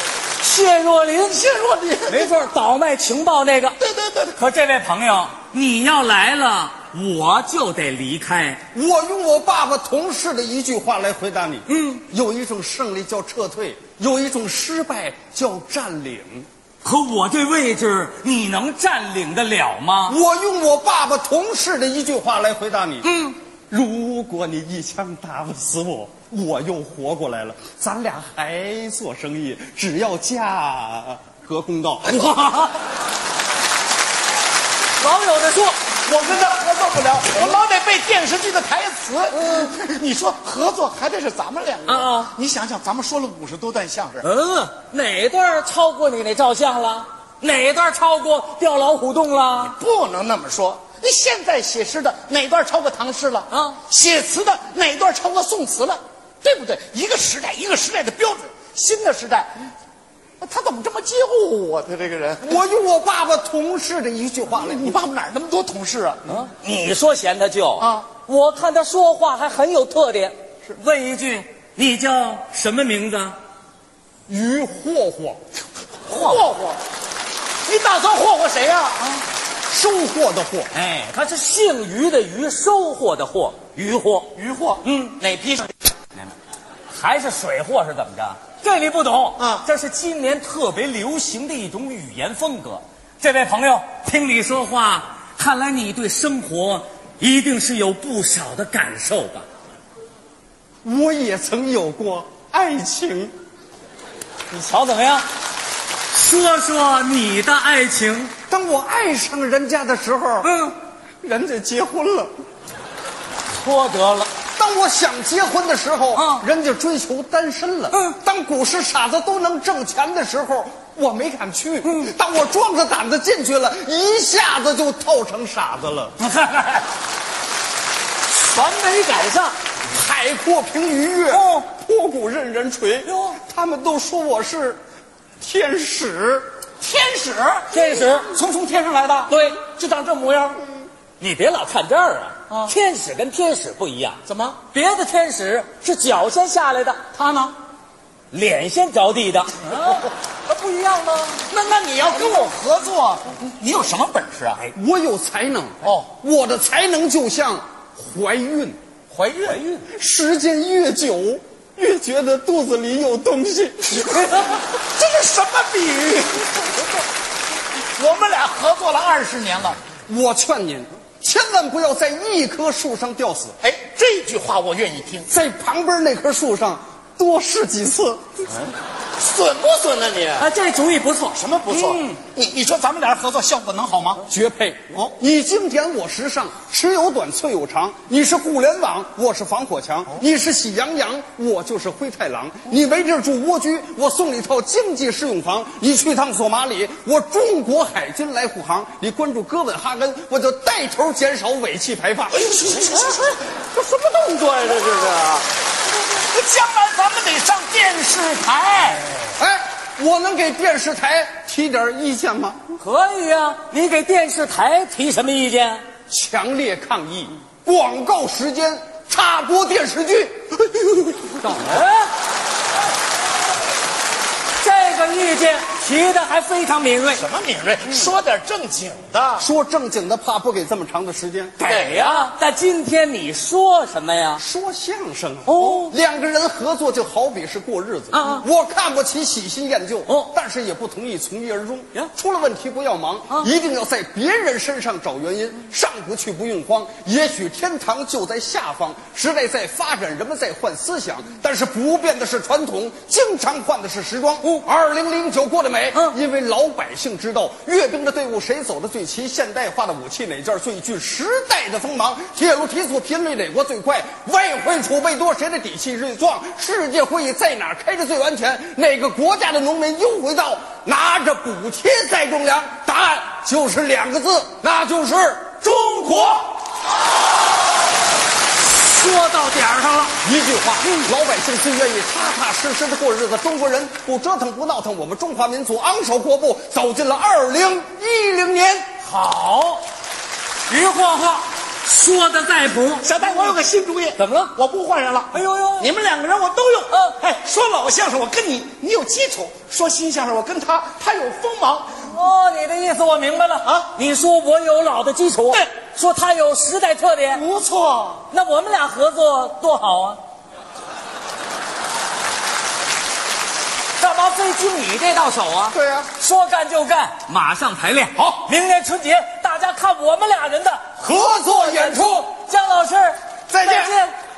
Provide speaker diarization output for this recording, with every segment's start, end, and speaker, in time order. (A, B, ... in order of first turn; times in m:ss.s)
0:00.4-0:01.4 A
0:01.2-0:02.3 B
0:02.1-0:03.8 A
0:03.8-0:04.5 B
0:04.4-0:08.6 A
0:08.7-0:16.5 C
0:11.7-0:12.0 A
0:16.8-0:20.2 A
0:20.1-0:23.1 C
0:23.0-0:23.4 A
0:23.7-0:32.3 C
0:32.1-0:32.8 A
0:35.0-0:35.8 A
0:36.1-0:44.3 B
0:39.3-0:39.7 A
0:41.9-0:42.3 A
0:44.2-0:49.8 A
0:49.6-0:59.6 B
0:53.5-0:53.8 A
1:00.4-1:02.6 B
1:02.4-1:05.0 C
1:04.6-1:06.2 B
1:06.3-1:13.4 A
1:07.8-1:08.1 B
1:14.3-1:15.4 C
1:16.1-1:16.8 B
1:17.7-1:19.2 B
1:19.7-1:20.7 C
1:20.7-1:24.3 A
1:24.4-1:25.7 B
1:24.8-1:25.2 A
1:26.9-1:39.4 A
1:29.4-1:29.7 B
1:40.8-1:43.3 C
1:44.5-1:45.3 A
1:46.1-1:48.3 A
1:48.5-1:50.7 C
1:50.4-1:50.8 A
1:51.2-1:52.3 C
1:53.5-1:54.3 A
1:54.6-2:06.2 C
1:56.2-1:56.4 A
2:01.8-2:02.1 A
2:06.2-2:06.9 A
2:08.3-2:09.6 A
2:09.9-2:14.8 C
2:11.3-2:11.6 A
2:15.4-2:16.5 C
2:16.8-2:20.6 B
2:17.7-2:18.3 A
2:19.3-2:19.6 A
2:21.2-2:27.0 A
2:22.5-2:22.8 B
2:24.3-2:24.6 B
2:27.1-2:27.6 B
2:28.3-2:31.4 A
2:31.5-2:34.7 B
2:34.7-2:38.8 C
2:35.8-2:36.1 B
2:39.1-2:39.7 B
2:39.4-2:39.8 A
2:39.8-2:44.4 C
2:44.0-2:46.7 B
2:48.0-2:49.8 B
2:50.1-2:53.6 C
2:53.6-2:55.3 B
2:55.3-2:58.5 C
2:59.2-3:00.5 B
3:00.4-3:02.2 A
3:01.3-3:04.3 B
3:04.3-3:22.6 C
3:22.3-3:25.5 B
3:26.0-3:29.3 B
3:29.4-3:32.8 C
3:32.8-3:35.8 A
3:36.1-3:41.8 C
3:41.4-3:42.1 A
3:44.6-3:47.3 A
3:47.2-3:49.5 B
3:49.4-3:51.6 C
3:51.6-3:54.4 A
3:51.6-3:52.3 B
3:54.4-4:36.5 C
3:55.5-3:55.9 A
3:58.1-3:58.5 A
4:00.1-4:00.3 A
4:38.6-4:40.2 A
4:40.2-4:48.9 C
4:49.0-4:49.8 A
4:50.7-4:53.6 A
4:53.0-5:02.0 B
4:54.2-4:54.5 A
4:55.3-4:55.9 A
5:02.0-5:07.4 A
5:03.6-5:03.9 B
5:07.3-5:08.2 B
5:08.3-5:10.2 A
5:14.0-5:20.8 A
5:15.7-5:16.1 C
5:21.0-5:22.3 C
5:21.5-5:24.1 A
5:23.5-5:23.9 C